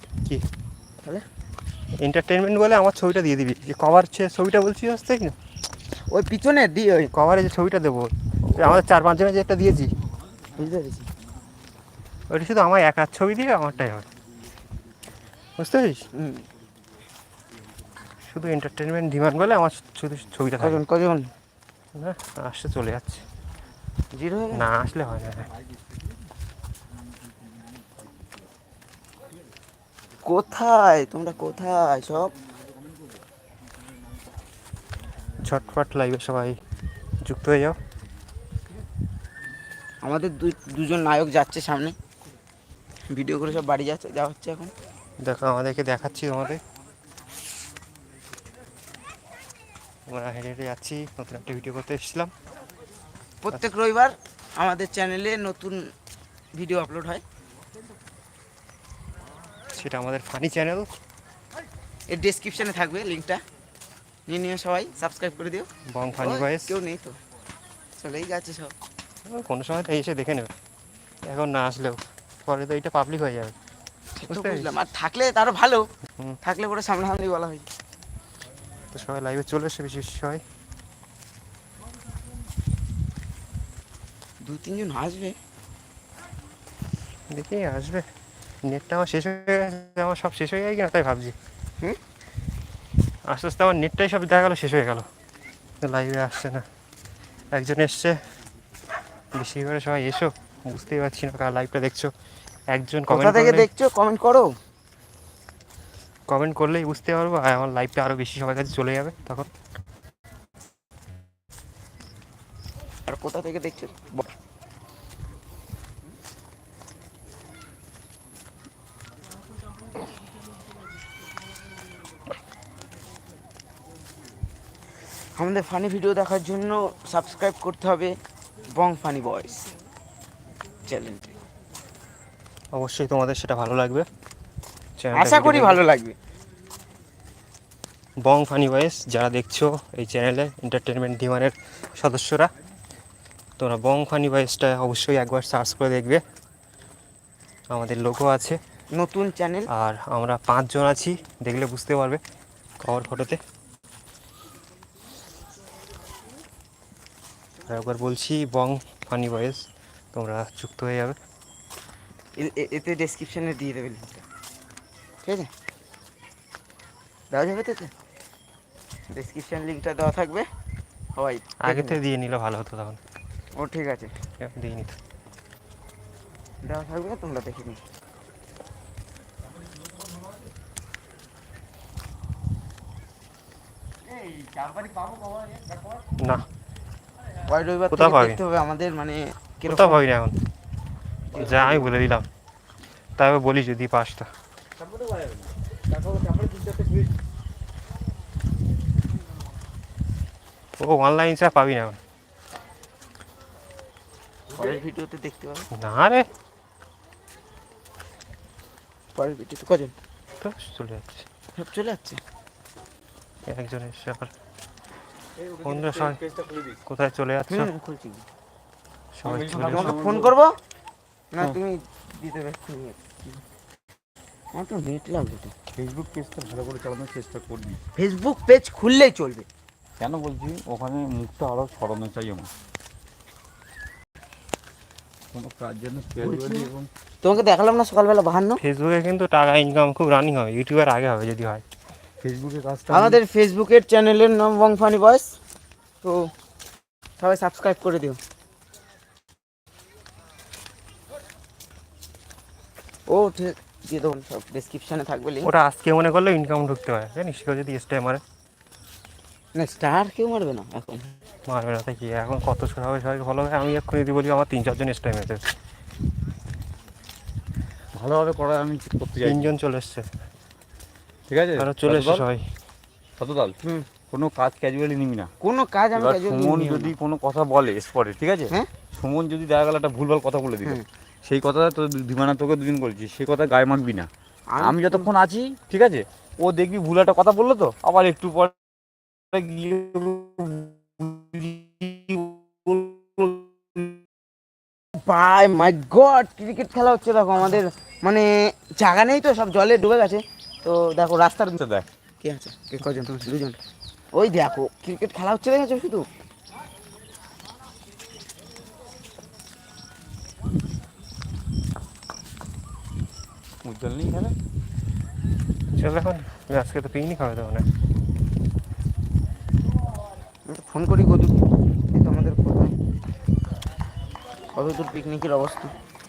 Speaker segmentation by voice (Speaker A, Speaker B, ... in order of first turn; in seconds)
Speaker A: 2.0-5.3, 7.1-9.9, 12.3-14.1, 15.6-16.0, 18.2-20.8, 21.9-23.2, 24.5-25.5, 35.4-36.6, 37.2-37.8, 45.2-46.6, 50.1-52.3, 59.7-60.9, 65.9-66.7, 69.3-70.5, 71.2-73.5, 74.3-74.7, 78.9-80.4, 87.3-88.0, 88.6-91.3, 93.3-95.0, 95.8-96.6, 97.5-98.2, 99.3-102.1, 102.7-103.7, 106.3-109.5, 132.7-134.1, 135.0-135.8, 138.2-142.5, 143.6-146.2, 147.7-148.6, 149.7-152.2, 152.8-153.4, 157.7-161.2, 171.6-173.0, 174.4-175.0, 186.2-186.4, 187.9-188.4, 189.7-190.3, 191.3-192.3, 193.2-194.3, 200.8-202.0, 205.7-206.3, 210.4-211.2, 213.5-214.3, 215.6-216.2, 216.8-217.7, 219.2-219.9, 238.6-241.6, 255.4-258.2, 261.5-265.4, 269.2-270.1, 271.6-272.5, 315.8-317.7
Speaker B: 6.1-7.1, 8.4-8.8, 10.6-11.1, 16.1-16.4, 20.6-21.3, 24.1-24.6, 30.2-32.3, 40.0-41.9, 43.1-44.7, 53.4-55.9, 56.5-57.2, 62.1-63.4, 64.3-65.7, 66.2-67.2, 68.0-68.7, 74.2-75.8, 76.4-77.6, 84.4-85.3, 103.1-104.5, 113.1-114.3, 125.3-128.1, 128.7-129.7, 130.8-131.3, 135.1-136.2, 148.9-149.7, 162.4-164.2, 165.2-165.5, 167.3-167.9, 169.1-170.5, 171.1-172.0, 173.5-174.1, 176.6-177.8, 187.4-190.0, 204.5-205.7, 209.1-209.9, 211.6-212.2, 217.5-218.2, 219.7-220.5, 221.3-223.4, 224.5-225.5, 227.9-229.4, 236.2-236.7, 237.2-238.6, 242.9-245.3, 246.0-246.3, 247.2-248.2, 253.1-255.5, 259.5-261.0, 275.4-276.9, 284.5-285.1, 294.9-301.6, 302.2-303.6, 304.1-306.1, 320.5-321.4, 321.9-322.7, 324.5-325.7
Speaker C: 191.3-191.9, 194.8-197.1, 215.4-216.8, 219.2-220.3, 225.7-227.8, 230.0-232.5, 235.3-236.9, 242.2-243.2, 267.9-269.5, 271.3-272.2, 273.2-273.6, 274.1-275.3, 275.9-288.5, 289.3-293.9, 301.6-301.9, 313.6-314.3